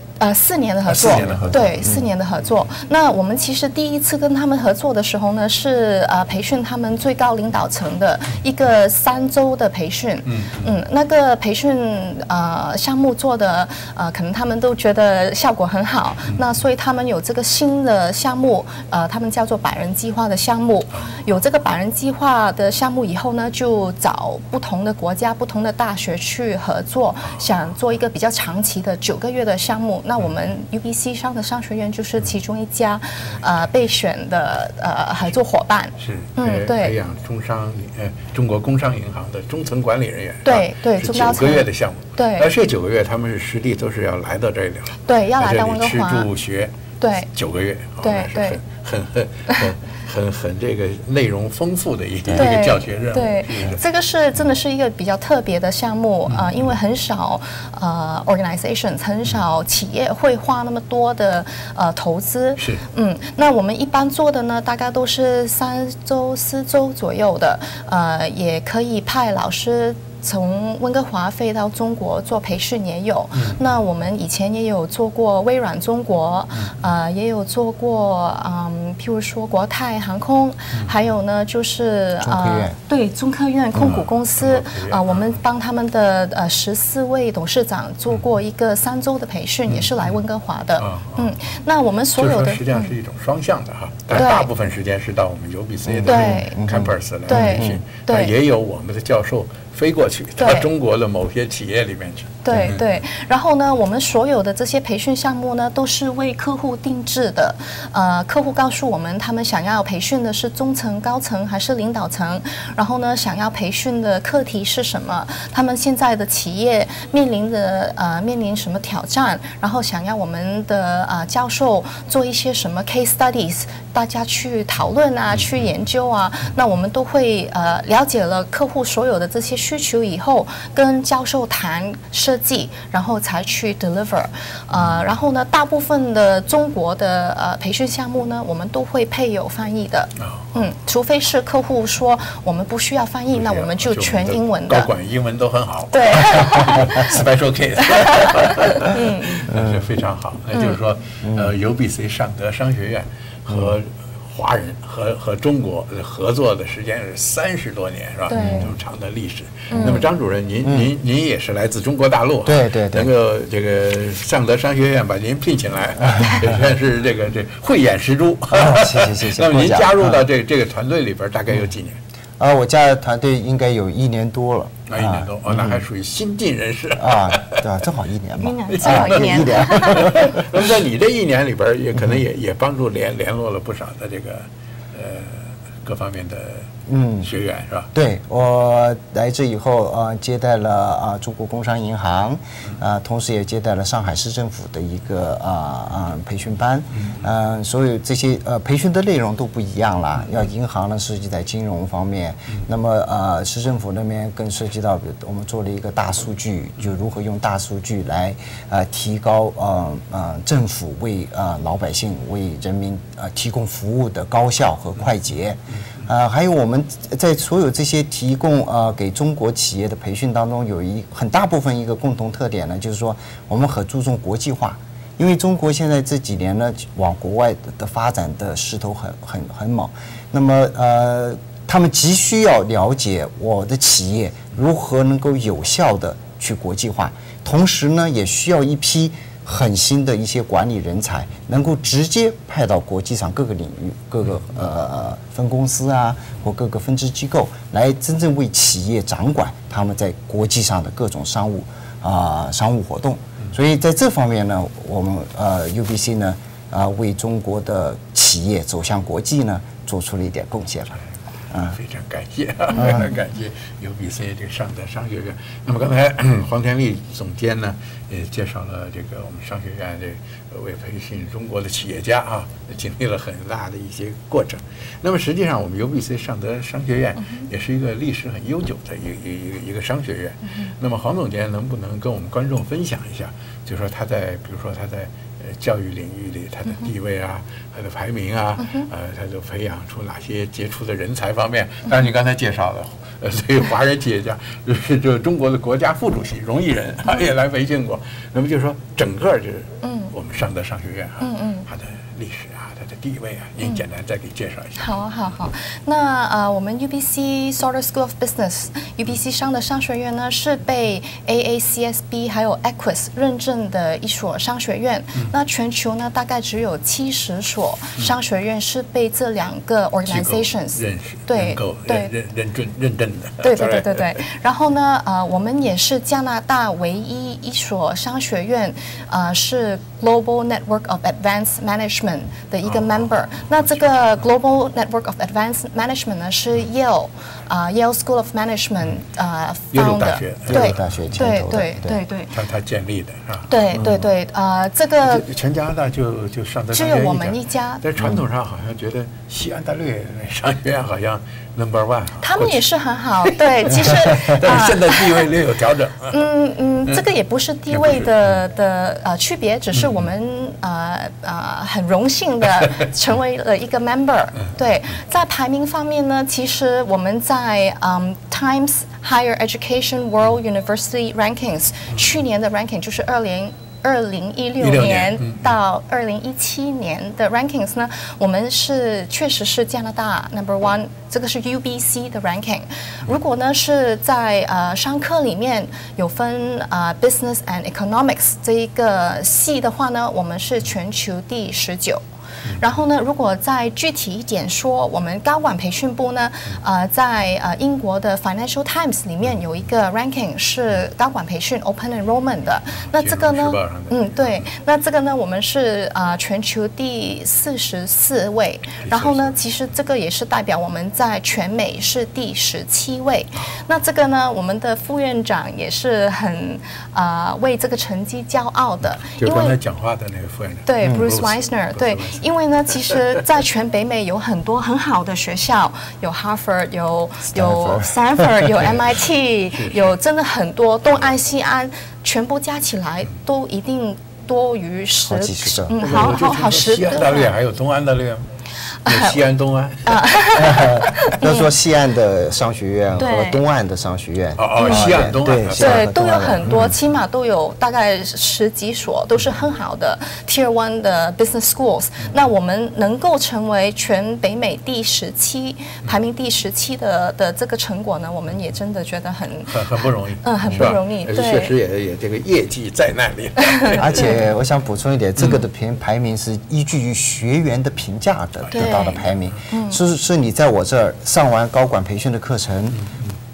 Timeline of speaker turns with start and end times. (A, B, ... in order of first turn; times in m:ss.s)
0:00.2-0:37.0 A
0:00.9-0:02.0 B
0:01.5-0:02.0 C
0:10.3-0:10.7 B
0:36.0-0:46.7 B
0:40.4-0:42.5 A
0:45.1-0:46.3 A
0:47.0-0:47.3 A
0:47.3-0:53.8 B
0:48.0-0:48.6 A
0:52.4-1:32.9 A
0:56.3-0:56.7 B
1:02.6-1:02.8 B
1:13.4-1:13.6 B
1:22.2-1:22.8 C
1:23.8-1:25.4 B
1:29.7-1:30.1 B
1:30.8-1:31.5 B
1:32.2-1:42.8 B
1:34.1-1:34.5 A
1:35.9-1:37.8 C
1:36.1-1:36.6 A
1:37.3-1:38.3 A
1:40.4-1:40.7 A
1:42.4-2:24.9 A
2:20.2-2:20.7 B
2:23.3-2:52.0 B
2:25.9-2:27.2 A
2:28.0-2:29.4 A
2:31.2-2:31.5 C
2:38.3-2:38.7 A
2:38.4-2:38.8 C
2:39.7-2:40.1 A
2:40.6-2:40.9 C
2:42.4-2:43.1 C
2:48.5-2:50.2 C
2:52.4-2:55.8 C
2:54.9-2:57.6 B
2:57.0-3:00.4 C
2:58.4-3:00.3 A
2:58.7-3:06.7 B
3:06.9-3:07.3 C
3:07.2-3:07.9 B
3:07.9-4:21.0 C
4:21.5-4:21.8 C
4:21.6-5:04.8 B
4:22.8-4:23.1 C
4:59.8-5:00.1 A
5:01.2-5:01.7 A
5:04.8-5:22.1 A
5:20.1-5:24.1 B
5:23.4-5:42.3 A
5:39.7-5:40.9 B
5:40.5-5:42.0 C
5:42.3-5:43.5 B
5:43.5-5:45.2 A
5:45.0-5:52.6 B
5:46.7-5:47.9 A
5:52.2-5:55.3 A
5:53.2-5:56.2 B
5:56.1-6:32.0 A
5:57.7-5:58.1 B
5:59.8-6:00.0 B
6:14.6-6:15.5 B
6:32.6-6:59.6 A
6:42.8-6:44.5 B
6:48.8-6:49.4 B
6:59.2-7:02.2 B
7:00.7-7:17.3 A
7:00.8-7:01.1 C
7:07.3-7:08.0 C
7:09.5-7:09.9 B
7:15.1-7:15.8 C
7:15.8-7:18.3 B
7:18.9-7:19.2 A
7:18.9-7:20.8 B
7:19.9-7:21.5 A
7:20.4-7:26.7 C
7:23.0-7:23.4 A
7:24.4-7:25.9 B
7:24.6-7:24.9 A
7:25.5-7:41.5 A
7:39.5-7:44.2 B
7:43.8-7:52.8 C
7:48.5-7:49.3 B
7:48.5-7:49.8 A